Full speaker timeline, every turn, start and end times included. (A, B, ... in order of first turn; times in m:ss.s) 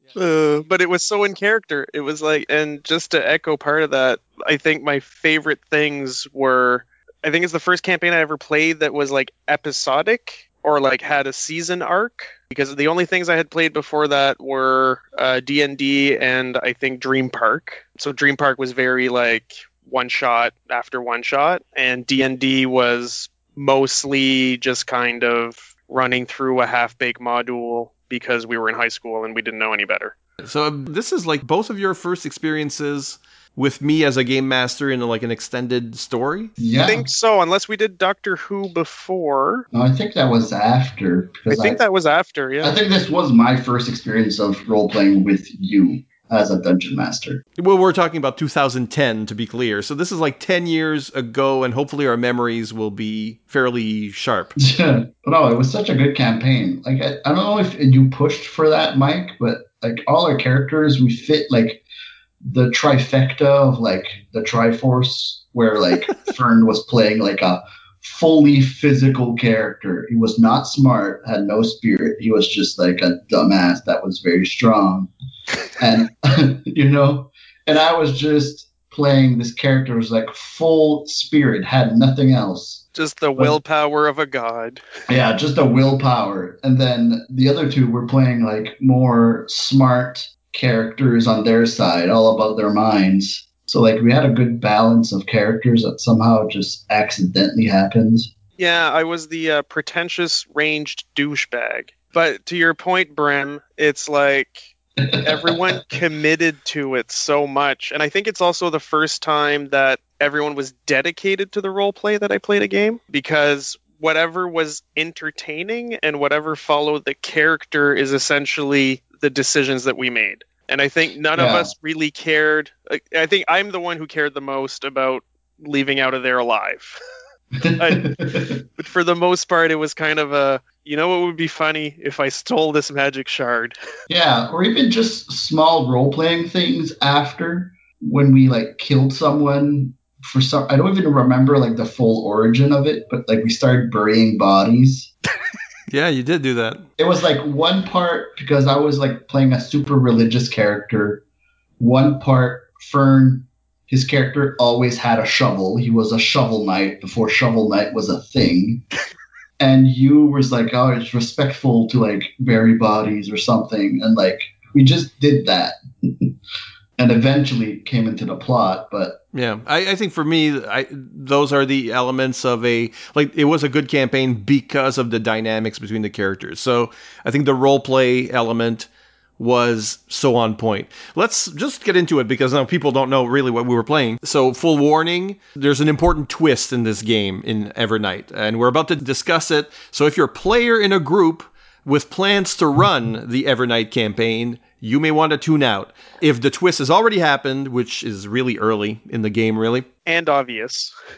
0:00.2-0:30.2 A
0:30.4-0:36.5 B
0:36.6-0:37.1 C
0:36.8-0:39.7 A
0:39.7-0:41.8 C
0:41.5-0:42.8 A
0:42.6-0:47.4 C
0:47.6-0:54.5 B
0:54.6-1:01.8 C
1:02.4-1:15.1 C
1:15.8-1:22.8 C
1:22.9-1:24.8 A
1:25.1-1:38.3 C
1:38.6-2:07.0 A
1:45.0-1:45.7 C
2:01.3-2:01.7 C
2:07.6-2:08.6 C
2:07.8-2:08.2 A
2:08.8-2:13.8 A
2:14.1-2:25.1 C
2:25.9-2:26.9 B
2:27.0-2:31.2 C
2:31.8-2:38.8 C
2:39.6-2:46.3 C
2:47.0-2:49.2 C
2:49.3-2:58.9 B
2:59.4-3:19.9 B
3:20.1-3:20.9 A